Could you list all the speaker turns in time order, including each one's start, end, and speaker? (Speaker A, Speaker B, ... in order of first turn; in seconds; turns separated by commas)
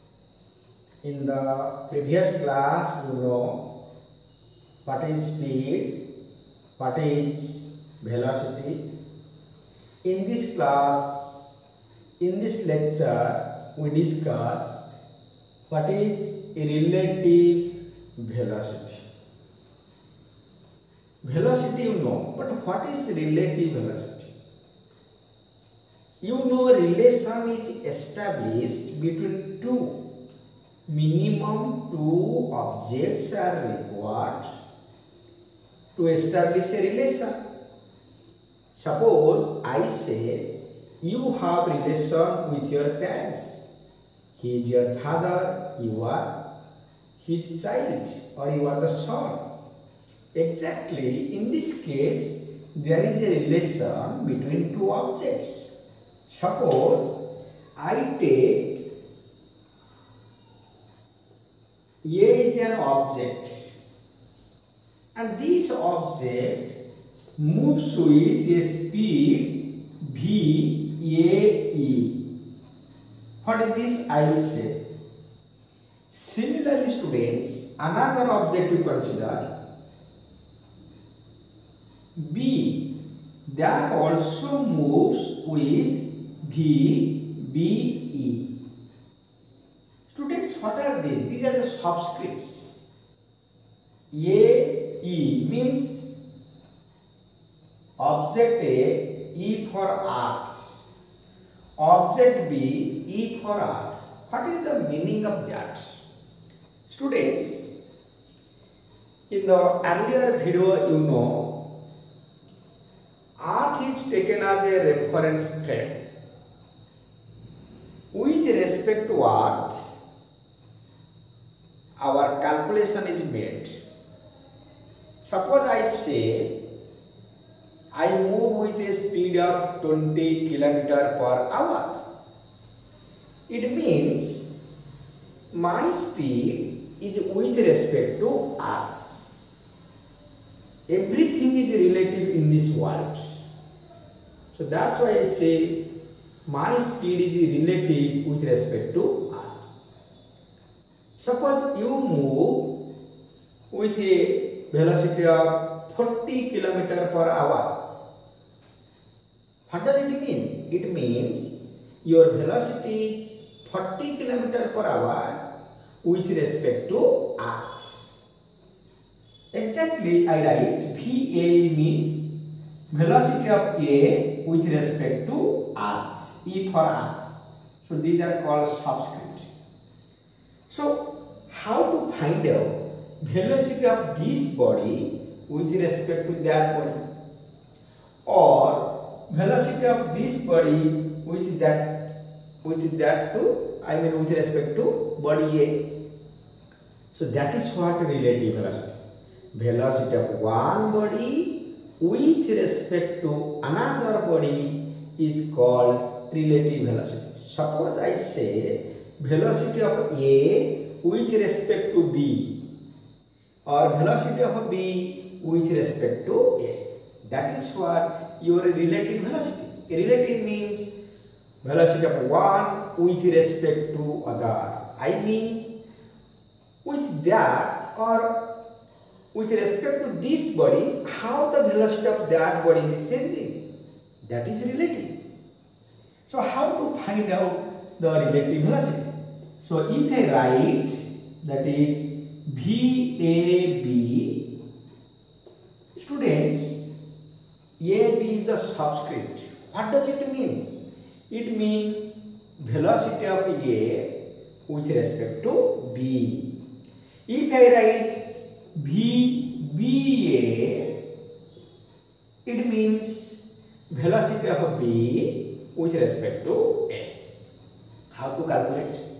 Speaker A: 1.0-3.6, Speaker A: 4.8-6.0, Speaker A: 6.8-8.8, Speaker A: 10.0-11.4, Speaker A: 12.2-14.9, Speaker A: 15.7-19.0, Speaker A: 21.2-24.3, Speaker A: 26.2-29.9, Speaker A: 30.9-34.5, Speaker A: 36.0-37.4, Speaker A: 38.7-40.5, Speaker A: 41.0-43.7, Speaker A: 44.4-46.3, Speaker A: 47.2-49.4, Speaker A: 50.3-55.7, Speaker A: 56.3-57.2, Speaker A: 57.8-58.8, Speaker A: 62.0-63.8, Speaker A: 65.1-66.8, Speaker A: 67.4-72.2, Speaker A: 73.4-74.8, Speaker A: 76.1-79.5, Speaker A: 82.2-82.9, Speaker A: 83.5-88.5, Speaker A: 90.1-92.7, Speaker A: 94.1-96.1, Speaker A: 98.0-100.8, Speaker A: 101.8-106.0, Speaker A: 106.9-107.7, Speaker A: 109.3-111.6, Speaker A: 113.4-116.0, Speaker A: 118.1-119.8, Speaker A: 122.0-123.8, Speaker A: 125.2-126.6, Speaker A: 127.9-132.0, Speaker A: 133.5-134.5, Speaker A: 135.5-139.3, Speaker A: 140.9-143.4, Speaker A: 144.5-145.8, Speaker A: 146.4-149.6, Speaker A: 151.2-152.7, Speaker A: 153.7-157.8, Speaker A: 159.7-165.4, Speaker A: 166.0-168.1, Speaker A: 169.5-172.3, Speaker A: 172.9-179.5, Speaker A: 180.7-187.1, Speaker A: 188.2-192.0, Speaker A: 192.6-195.8, Speaker A: 197.1-199.0, Speaker A: 199.5-212.5, Speaker A: 213.7-220.9, Speaker A: 221.6-225.7, Speaker A: 226.8-228.4, Speaker A: 229.3-233.6, Speaker A: 234.2-235.2, Speaker A: 236.2-244.4, Speaker A: 245.9-246.8, Speaker A: 247.8-250.7, Speaker A: 251.3-254.1, Speaker A: 254.7-256.5, Speaker A: 257.3-258.2, Speaker A: 258.7-260.9, Speaker A: 262.4-267.1, Speaker A: 268.1-269.0